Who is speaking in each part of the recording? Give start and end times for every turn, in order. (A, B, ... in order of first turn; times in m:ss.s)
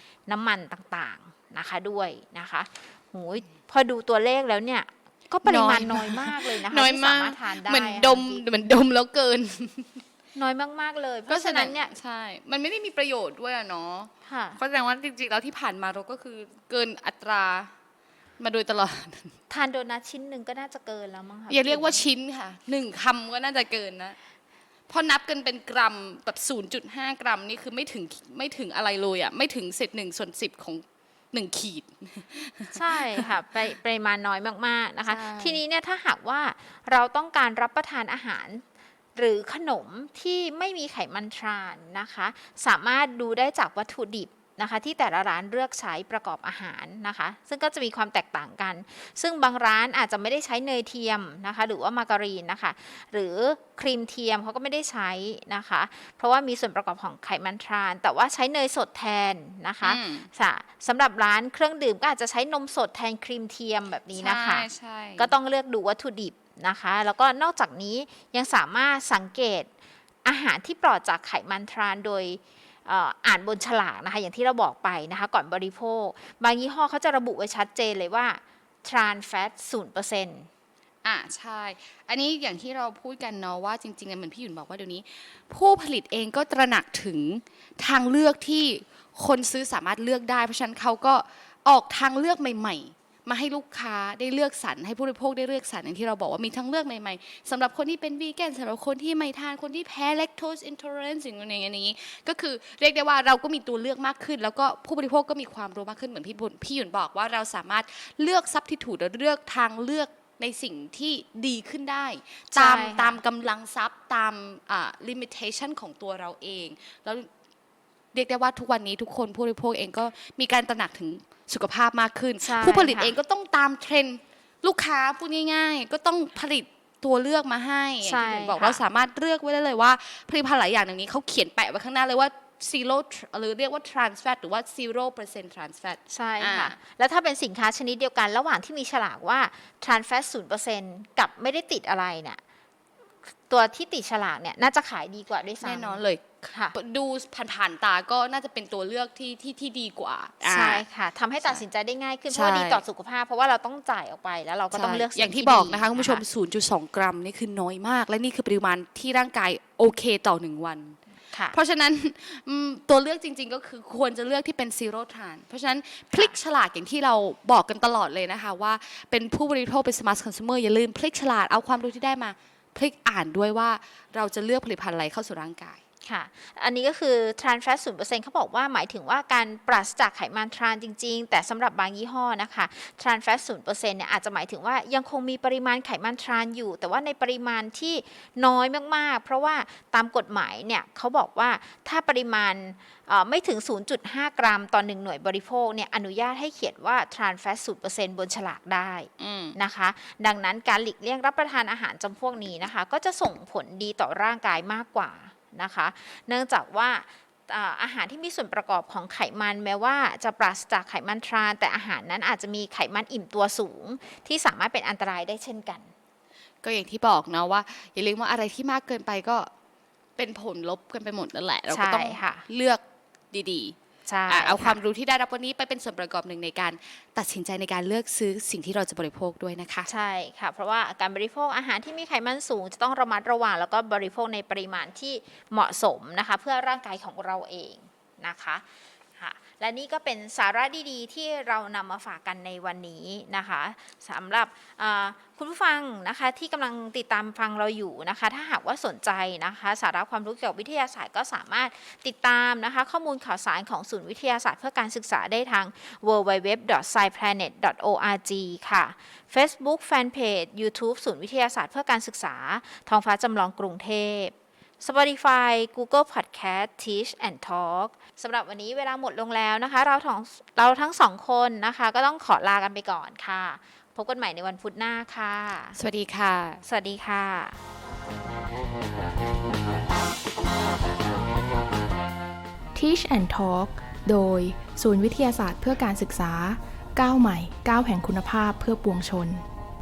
0:00.3-0:08.4 A
0:05.4-0:10.0 B
0:10.4-0:11.9 A
0:11.3-0:17.7 B
0:14.3-0:14.6 A
0:18.4-0:19.4 B
0:19.5-0:22.0 A
0:21.5-0:24.2 B
0:24.9-0:33.3 B
0:32.7-0:38.6 A
0:35.1-0:35.6 B
0:39.2-1:09.7 A
0:59.8-1:00.3 B
1:04.2-1:05.3 B
1:10.2-1:20.5 A
1:21.0-1:57.3 B
1:52.5-1:53.2 A
1:58.1-2:16.8 B
2:02.4-2:03.1 A
2:08.0-2:08.8 A
2:16.1-2:22.4 A
2:23.5-2:26.8 A
2:25.6-2:30.8 B
2:30.4-2:36.2 A
2:32.3-2:32.8 B
2:34.7-2:41.0 B
2:41.3-2:41.6 A
2:41.5-2:55.8 B
2:56.0-3:35.9 A
3:19.2-3:19.6 B
3:36.6-3:39.5 B
3:40.2-3:43.8 B
3:41.7-3:42.4 A
3:44.1-3:44.8 A
3:44.3-3:49.9 B
3:49.9-3:58.6 A
3:59.2-4:35.8 A
4:35.8-4:36.6 B
4:36.6-4:37.6 A
4:42.8-4:49.4 C